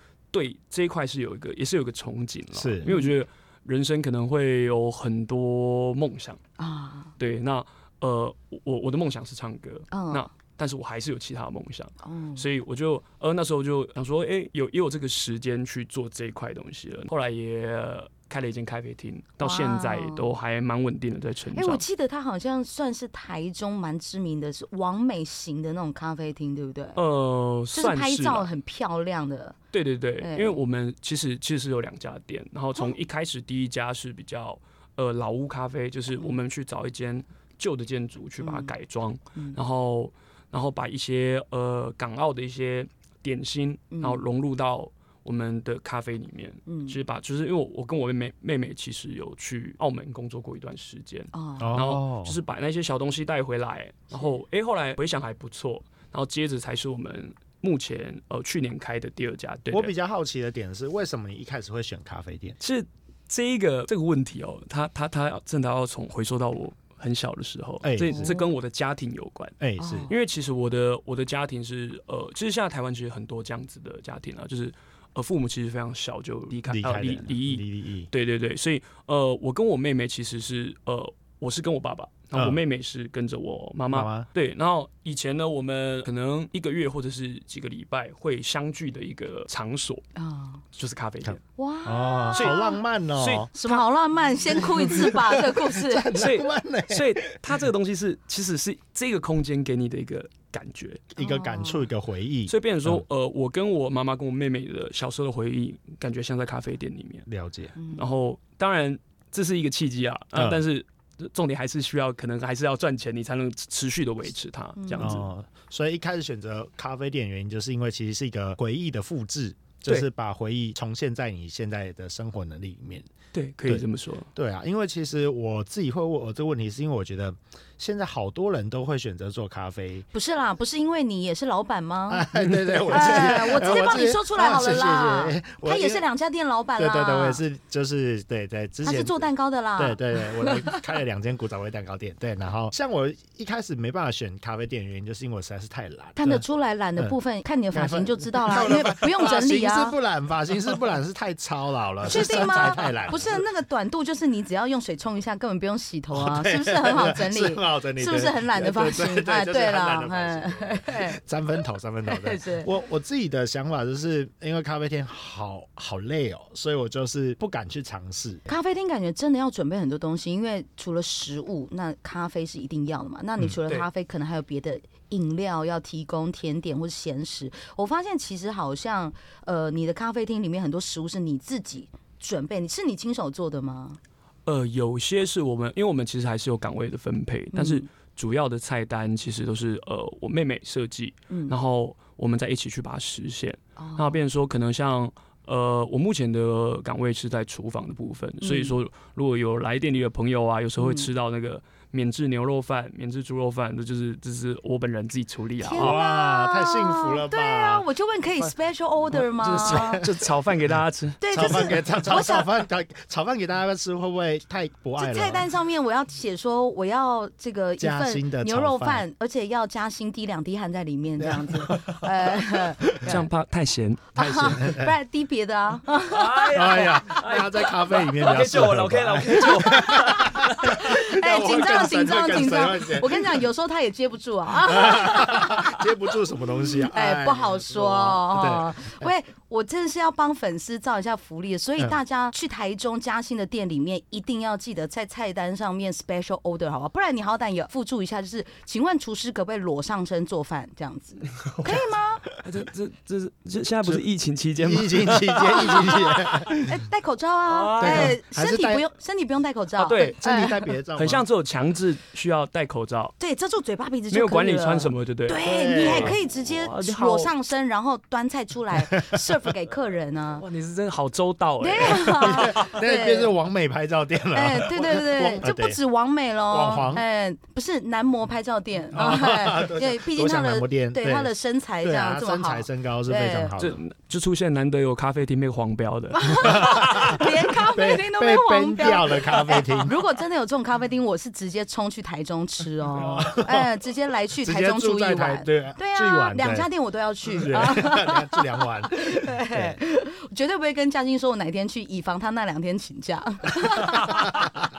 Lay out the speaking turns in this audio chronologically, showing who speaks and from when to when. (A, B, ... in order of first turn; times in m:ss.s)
0:00.3-0:06.4 A
0:02.5-0:02.9 B
0:02.8-0:03.1 C
0:06.6-0:07.1 C
0:07.2-0:21.8 A
0:09.9-0:10.3 C
0:12.0-0:12.5 C
0:19.4-0:20.3 C
0:21.6-0:27.0 C
0:27.0-0:28.5 A
0:27.7-0:29.6 C
0:29.7-0:59.9 A
0:30.2-0:30.6 C
0:38.4-0:38.7 C
0:43.9-0:44.2 C
0:46.7-0:47.0 C
0:51.3-0:51.8 C
0:51.6-0:52.4 B
0:59.7-1:02.6 B
1:02.6-1:09.6 A
1:07.8-1:08.4 B
1:08.1-1:08.5 C
1:09.6-1:10.1 B
1:09.8-1:10.1 C
1:10.1-1:30.0 A
1:16.7-1:18.1 B
1:22.3-1:22.6 B
1:23.9-1:24.3 B
1:30.2-1:30.6 C
1:30.7-1:31.4 A
1:31.2-1:33.5 B
1:31.6-1:32.8 C
1:32.3-1:32.6 A
1:33.2-1:33.8 A
1:33.5-1:36.1 C
1:34.5-1:37.4 B
1:36.1-1:41.0 A
1:41.1-1:43.0 B
1:41.2-1:41.9 C
1:42.5-1:47.3 A
1:47.3-1:47.7 B
1:47.8-1:48.1 C
1:47.9-1:55.3 A
1:50.4-1:50.6 B
1:54.8-1:55.2 C
1:55.0-2:03.1 B
2:03.3-2:04.3 A
2:04.4-2:10.0 B
2:10.1-2:12.3 C
2:12.1-2:16.0 B
2:12.8-2:17.4 C
2:16.8-2:19.2 B
2:18.8-2:20.8 C
2:19.8-2:26.4 B
2:26.2-2:30.0 C
2:27.7-2:33.4 B
2:32.0-2:41.2 C
2:36.1-2:48.5 B
2:42.1-2:42.7 C
2:48.5-3:04.0 C
3:04.5-3:26.0 A
3:07.5-3:07.9 C
3:11.3-3:11.6 C
3:13.8-3:14.2 C
3:18.4-3:18.7 C
3:20.8-3:21.1 C
3:25.6-3:30.0 C
3:25.8-3:27.8 B
3:29.2-3:31.2 A
3:29.5-3:30.8 B
3:31.2-3:32.5 C
3:31.3-3:35.5 B
3:35.0-3:43.3 C
3:37.8-3:39.0 B
3:41.2-3:42.3 B
3:43.0-3:44.1 A
3:44.2-3:46.9 C
3:44.2-3:44.9 B
3:46.1-3:50.8 A
3:46.5-3:53.5 B
3:49.9-3:55.8 C
3:54.6-3:59.1 B
3:56.8-4:12.2 C
4:12.4-4:16.6 A
4:14.6-4:16.6 B
4:15.6-4:15.9 C
4:16.6-4:20.7 C
4:17.5-4:18.2 A
4:17.8-4:18.8 B
4:19.8-4:20.2 A
4:20.1-4:21.2 B
4:21.0-4:23.2 A
4:23.2-4:30.4 C
4:24.1-4:27.3 A
4:25.4-4:26.2 B
4:29.0-4:29.3 B
4:30.4-4:32.6 A
4:31.6-4:33.3 C
4:32.2-4:35.8 B
4:34.3-4:43.6 C
4:36.5-4:37.0 B
4:38.9-4:43.8 B
4:43.6-4:46.6 A
4:46.1-5:04.5 C
4:46.4-4:50.0 B
4:53.0-4:53.7 B
4:54.4-4:56.7 B
4:57.3-4:59.8 B